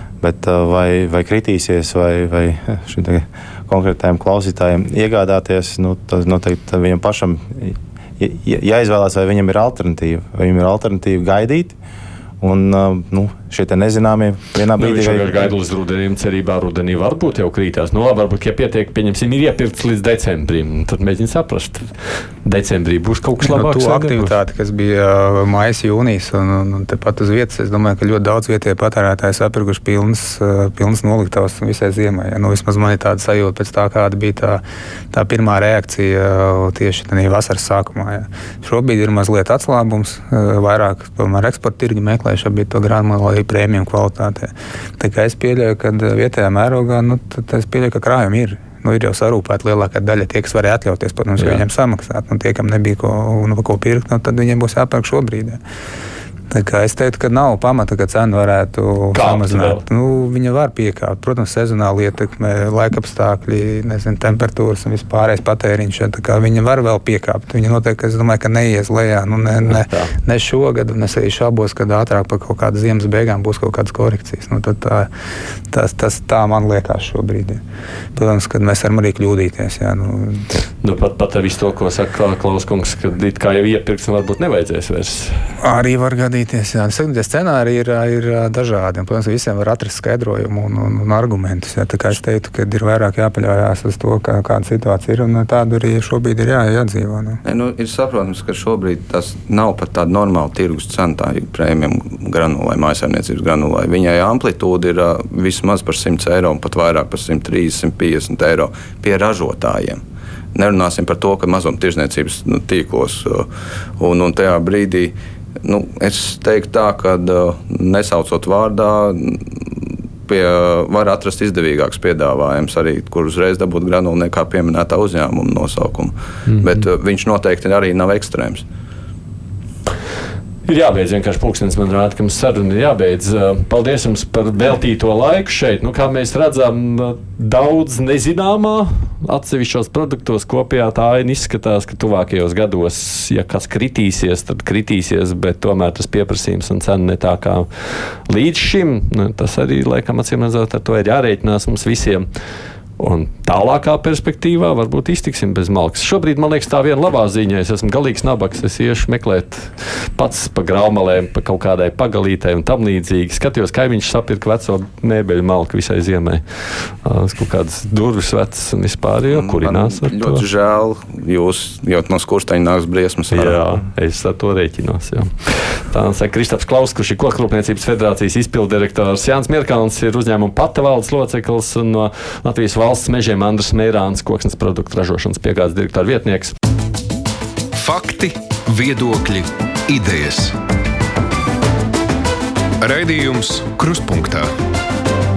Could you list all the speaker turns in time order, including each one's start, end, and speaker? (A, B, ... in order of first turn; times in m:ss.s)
0:00.2-0:11.8 A
0:12.4-0:15.5 A
0:14.8-0:24.4 B
0:23.4-0:55.6 C
0:51.4-0:51.6 B
0:56.5-1:15.1 C
0:59.1-0:59.8 B
1:09.7-1:10.1 B
1:15.7-1:17.6 C
1:18.2-1:20.5 C
1:20.8-1:25.5 B
1:25.6-1:37.4 C
1:37.4-1:50.0 D
1:50.5-1:53.5 D
1:54.0-1:59.5 D
2:00.3-2:08.6 D
2:10.7-2:32.3 B
2:33.0-2:50.4 B
2:49.3-2:53.6 D
2:53.3-3:06.6 B
3:07.8-3:10.6 E
3:12.8-3:14.5 E